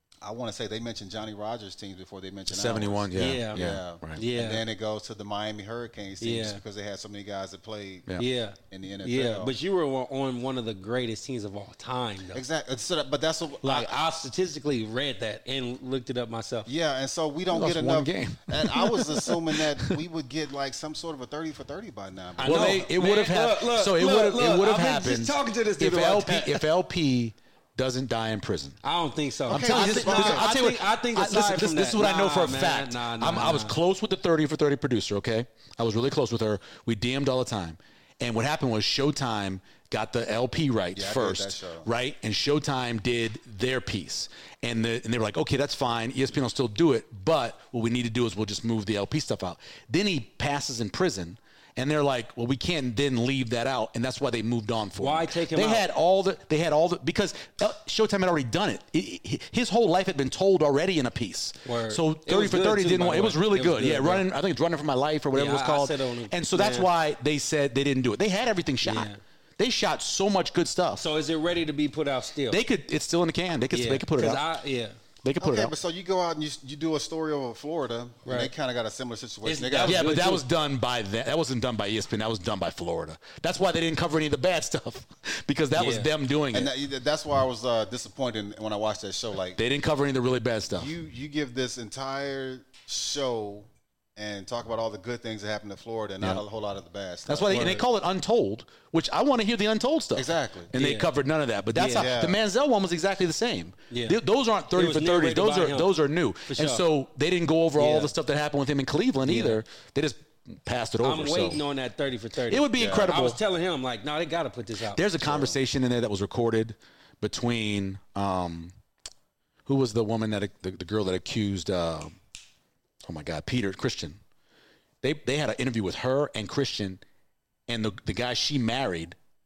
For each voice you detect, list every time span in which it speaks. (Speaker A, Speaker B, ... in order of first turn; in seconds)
Speaker A: 0.2-9.5, 12.3-14.0, 16.7-22.9, 29.5-30.5, 40.9-41.9, 75.4-80.1, 86.5-89.6, 90.7-97.8, 100.2-100.7, 101.9-102.4, 112.8-113.1, 115.2-115.5
Speaker B: 2.5-4.2, 17.5-20.0, 22.4-28.8, 29.5-71.0, 72.5-74.4, 75.2-75.7, 79.8-86.7, 89.6-90.9, 97.3-111.6, 112.5-113.4, 115.0-118.7, 119.7-122.1, 123.0-124.2, 125.0-127.0, 127.7-129.2
Speaker C: 3.1-4.6, 6.2-6.6, 8.2-12.4, 13.6-16.7, 22.4-26.6, 28.8-33.8, 55.0-55.9, 61.6-64.3, 65.3-66.9, 68.8-69.2, 71.0-72.6, 73.7-75.0, 78.2-78.5, 79.5-80.4, 85.8-86.1, 97.5-97.8, 100.8-101.1, 101.7-102.1, 103.9-104.2, 104.7-105.9, 106.5-106.8, 107.8-108.1, 109.2-109.6, 111.0-115.1